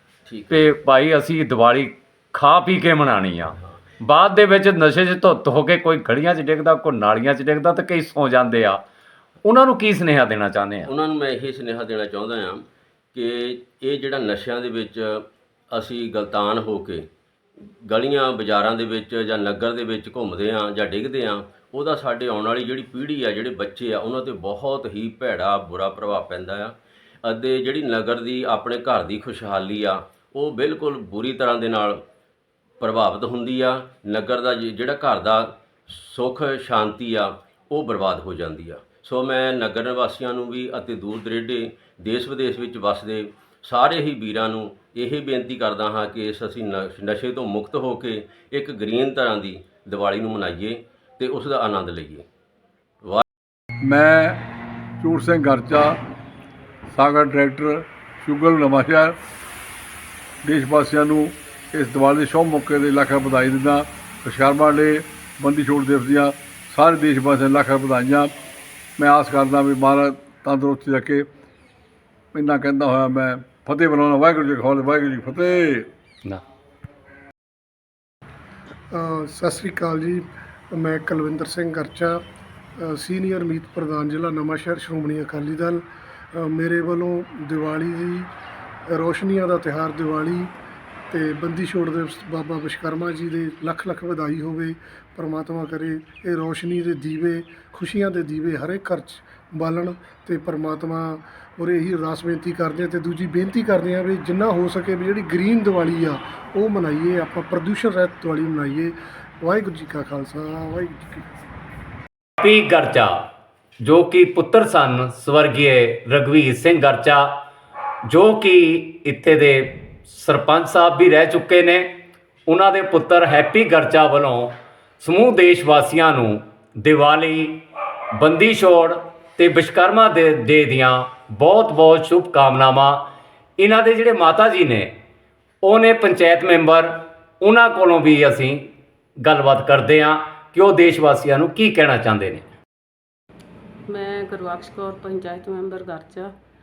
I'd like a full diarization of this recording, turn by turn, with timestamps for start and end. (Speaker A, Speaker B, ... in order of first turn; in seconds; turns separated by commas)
Speaker A: 0.3-0.7, Speaker B: 0.5-8.8, Speaker B: 9.4-10.9, Speaker A: 10.9-17.1, Speaker A: 17.9-32.0, Speaker A: 32.8-52.3, Speaker C: 53.8-54.4, Speaker C: 55.0-56.0, Speaker C: 56.9-59.2, Speaker C: 60.4-68.3, Speaker C: 69.0-71.3, Speaker C: 72.3-75.9, Speaker D: 78.9-82.2, Speaker D: 82.8-88.3, Speaker D: 88.9-90.5, Speaker D: 91.1-111.3, Speaker B: 112.4-113.2, Speaker B: 113.8-117.3, Speaker B: 118.1-121.9, Speaker B: 122.5-127.6, Speaker B: 128.2-133.0, Speaker B: 133.6-134.9, Speaker B: 135.6-138.6, Speaker B: 139.2-142.4, Speaker E: 143.9-146.3